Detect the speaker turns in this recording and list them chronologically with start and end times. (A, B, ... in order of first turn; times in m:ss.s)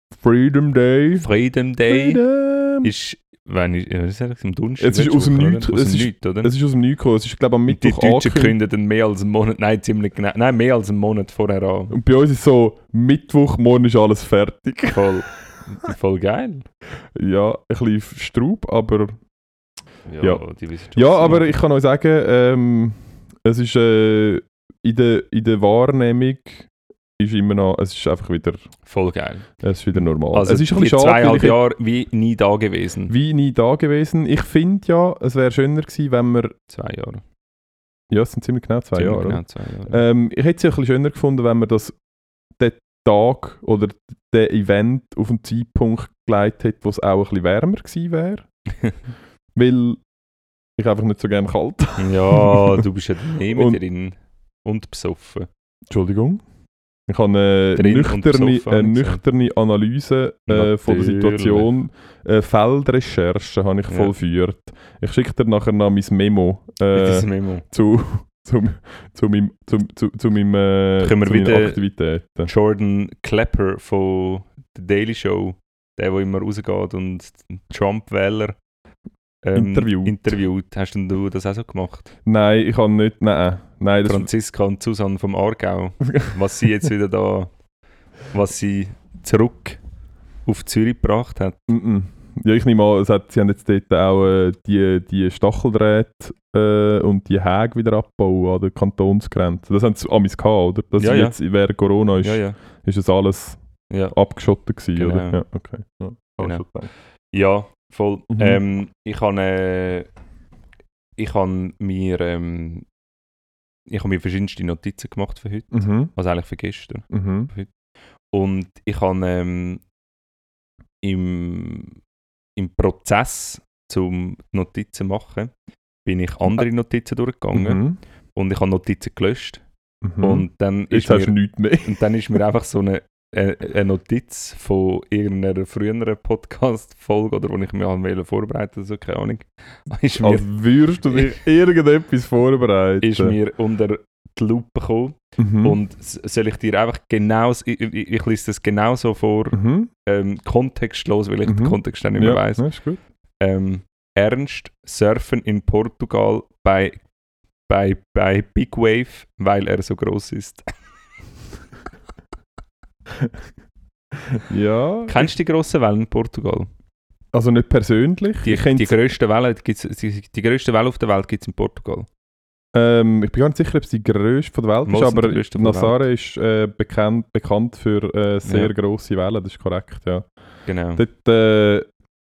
0:00.2-0:01.3 A
0:01.2-0:02.2 B
0:01.9-0:02.9 A
0:02.8-0:06.5 B
0:04.8-0:08.5 A
0:07.7-0:12.0 B
0:11.9-0:15.1 A
0:14.9-0:16.6 B
0:17.2-0:19.1 A
0:20.1-0:21.5 B
0:20.9-0:28.6 A
0:28.8-0:33.1 B
0:29.6-0:31.6 A
0:33.1-0:36.5 A
0:36.7-0:37.2 B
0:38.1-0:42.0 A
0:38.9-0:40.0 B
0:42.6-0:48.4 A
0:49.5-0:50.0 A
0:50.8-0:52.8 A
0:52.0-0:55.5 B
0:53.5-0:53.8 A
0:55.9-0:56.4 A
0:57.1-1:12.5 A
0:57.8-0:59.2 B
1:00.5-1:01.7 B
1:03.9-1:04.1 B
1:06.9-1:07.6 B
1:11.0-1:11.8 B
1:12.4-1:18.6 B
1:19.4-1:22.1 B
1:19.5-1:20.3 A
1:22.2-1:24.3 A
1:24.0-1:27.5 B
1:28.3-1:29.8 B
1:30.4-1:31.6 B
1:31.7-1:43.6 A
1:41.0-1:41.4 B
1:42.2-1:42.6 B
1:43.9-1:44.1 B
1:44.1-1:46.9 A
1:45.0-1:45.4 B
1:47.3-1:50.1 B
1:48.3-1:48.6 A
1:51.2-1:52.8 B
1:53.9-1:57.7 B
1:55.7-1:56.1 A
1:57.1-1:57.5 A
1:58.3-1:59.8 B
2:01.0-2:02.0 B
2:02.6-2:05.5 B
2:06.0-2:07.8 B
2:07.5-2:08.0 A
2:08.3-2:09.6 B
2:10.0-2:12.0 A
2:10.2-2:20.5 B
2:20.2-2:23.4 A
2:21.1-2:21.4 B
2:23.0-2:32.7 B
2:25.4-2:25.8 A
2:29.5-2:29.9 A
2:31.4-2:33.0 A
2:33.4-2:37.0 B
2:37.7-2:40.6 B
2:44.3-2:45.3 A
2:45.1-2:46.7 B
2:47.3-2:48.9 A
2:48.4-2:52.1 B
2:52.7-3:00.3 A
2:54.8-2:56.0 B
2:58.4-2:58.7 B
3:00.7-3:01.0 B
3:01.0-3:01.8 A